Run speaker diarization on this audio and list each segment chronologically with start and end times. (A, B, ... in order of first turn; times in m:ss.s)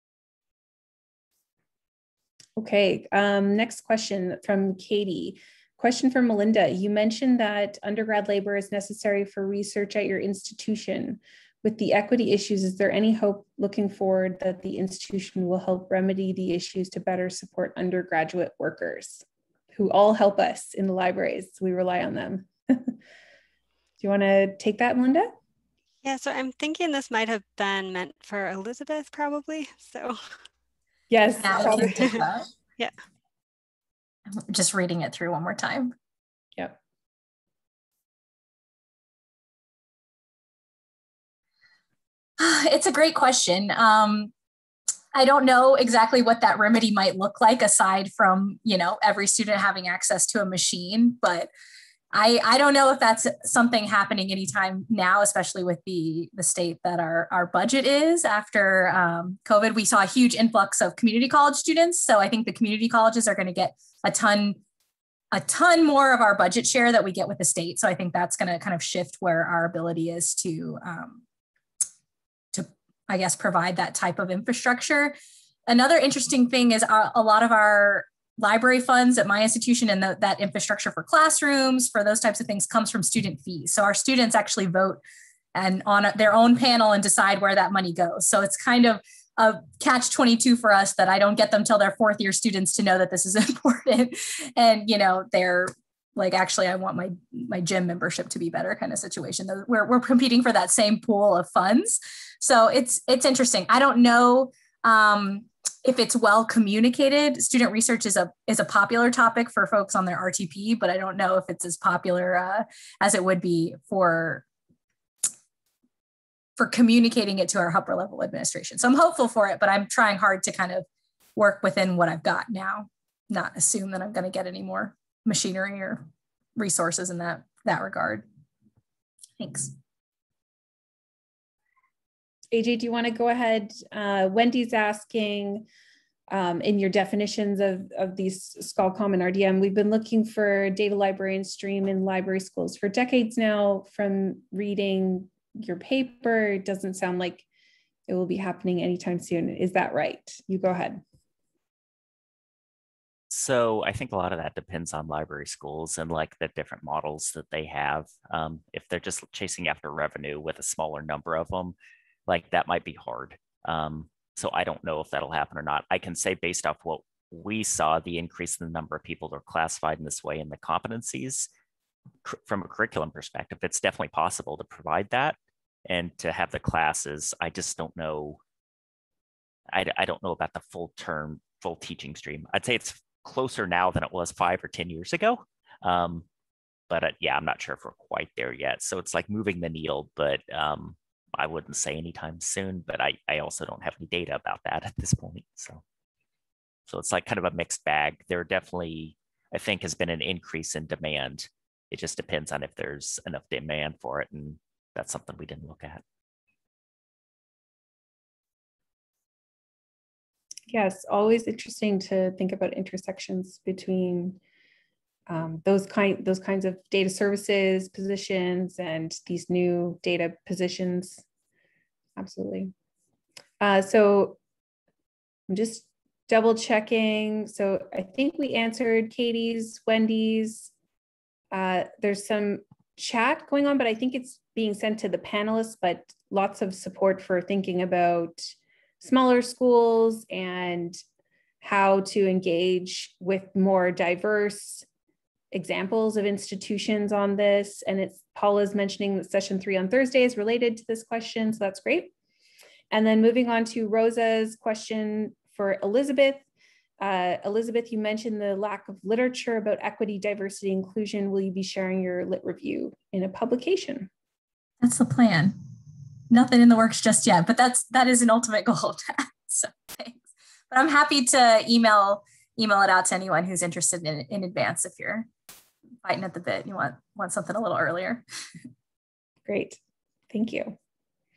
0:02.6-0:19.2 A
0:19.8-0:23.0 A
0:24.0-0:25.3 A
0:26.0-0:30.2 B
0:31.1-0:32.2 A
0:31.4-0:32.5 C
0:31.7-0:32.2 B
0:34.3-0:36.0 C
0:42.4-0:44.3 C
0:45.1-0:51.5 C
0:52.1-1:04.6 C
1:05.3-1:11.2 C
1:12.5-1:15.2 C
1:15.7-1:25.0 C
1:25.6-1:54.4 C
1:56.6-2:00.8 C
2:01.4-2:08.2 C
2:09.4-2:09.7 C
2:12.5-2:15.7 A
2:16.3-2:27.4 A
2:28.1-2:31.0 A
2:33.3-2:41.8 D
2:42.3-2:51.5 D
2:52.2-2:55.4 D
2:55.9-2:58.4 D
2:59.7-3:06.3 D
3:06.9-3:15.8 D
3:16.9-3:26.0 D
3:30.7-3:34.4 A
3:35.3-3:41.2 A
3:42.2-3:42.7 A
3:43.6-3:44.4 A
3:45.5-3:50.7 A
3:51.5-4:01.0 A
4:01.6-4:04.8 A
4:05.5-4:12.1 A
4:12.9-4:16.4 A
4:17.0-4:24.1 A
4:24.8-4:25.6 C
4:26.3-4:30.2 C
4:30.7-4:35.3 C
4:36.0-4:38.2 C
4:39.5-4:39.8 A
4:40.3-4:40.8 A